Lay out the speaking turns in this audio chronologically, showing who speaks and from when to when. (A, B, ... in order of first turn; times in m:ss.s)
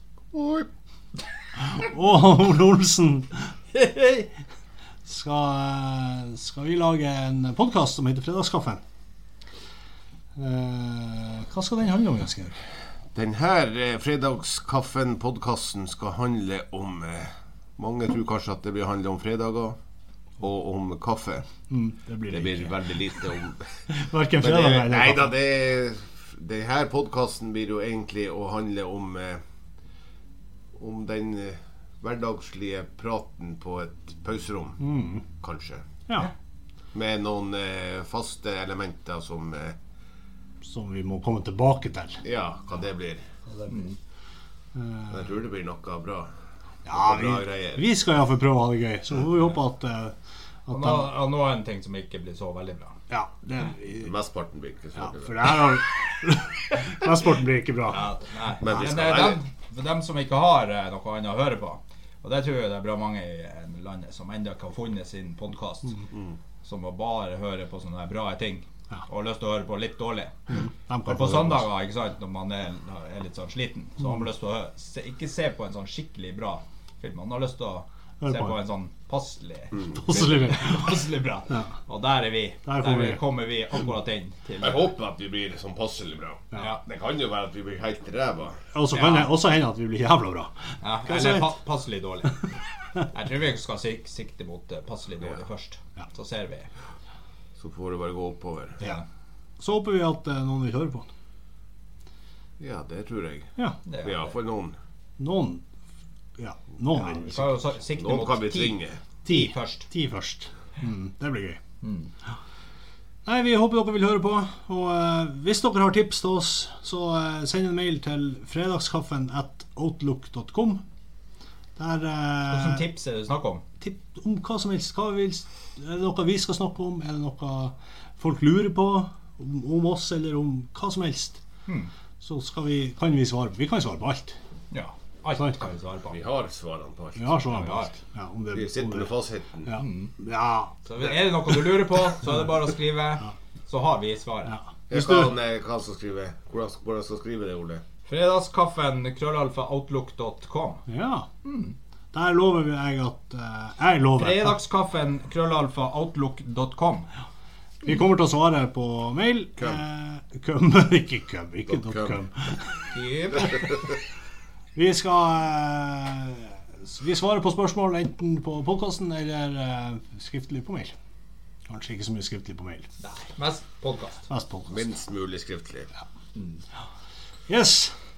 0:00.3-0:00.7 A
0:01.6-0:04.3 B
0:05.0-0:08.8 B
0:10.4-0:12.6 B
0:13.1-0:19.8 A
0:20.4-0:21.4 A
0:21.7-0:23.2 B
0:22.3-0:23.8 A
0:23.9-0:25.3 B
0:24.4-0:29.4 A
0:30.8-0:34.8 A
0:34.8-0:35.2 B
0:35.4-0:35.8 A
0:36.9-0:39.8 A
0:40.6-0:42.2 B
0:42.2-0:43.3 A
0:43.7-0:44.0 C
0:44.8-0:45.1 B
0:45.1-0:46.3 A
0:46.8-0:50.1 B
0:46.9-0:47.8 A
0:50.7-0:51.2 B
0:50.7-0:53.0 C
0:53.1-0:54.1 B
0:53.9-0:55.6 A
0:55.0-0:58.1 B
0:57.9-1:06.0 C
0:58.6-0:59.4 A
1:06.6-1:24.9 C
1:10.5-1:11.7 B
1:18.2-1:18.6 B
1:19.8-1:21.7 B
1:22.6-1:23.2 B
1:24.6-1:28.6 A
1:26.5-1:26.8 C
1:28.7-1:30.5 B
1:28.9-1:29.3 C
1:30.8-1:32.4 C
1:31.0-1:31.5 B
1:33.1-1:36.7 C
1:37.6-1:38.8 A
1:39.6-1:41.1 B
1:42.6-1:43.5 A
1:43.8-1:44.3 C
1:44.0-1:44.8 A
1:45.2-1:45.6 B
1:46.4-1:47.6 B
1:47.0-1:49.9 C
1:48.0-1:49.0 A
1:49.2-1:51.6 B
1:51.8-1:52.1 C
1:53.2-2:00.8 B
2:01.8-2:02.9 B
2:02.5-2:03.6 C
2:03.8-2:11.4 B
2:12.2-2:14.4 B
2:14.7-2:16.2 C
2:16.1-2:17.3 A
2:17.2-2:19.1 B
2:17.5-2:17.9 C
2:18.5-2:19.8 A
2:19.6-2:21.8 B
2:19.8-2:20.1 C
2:20.8-2:24.5 C
2:24.5-2:25.3 B
2:24.9-2:27.8 A
2:28.0-2:30.8 C
2:30.9-2:31.3 B
2:31.4-2:31.7 C
2:32.1-2:34.6 B
2:34.2-2:37.1 C
2:37.8-2:43.0 B
2:41.7-2:42.2 A
2:42.9-2:43.8 C
2:44.7-2:50.9 B
2:51.7-2:52.9 B
2:53.0-2:54.2 C
2:54.3-2:54.9 B
2:54.7-2:55.9 A
2:56.3-2:56.6 C
2:57.5-2:57.9 B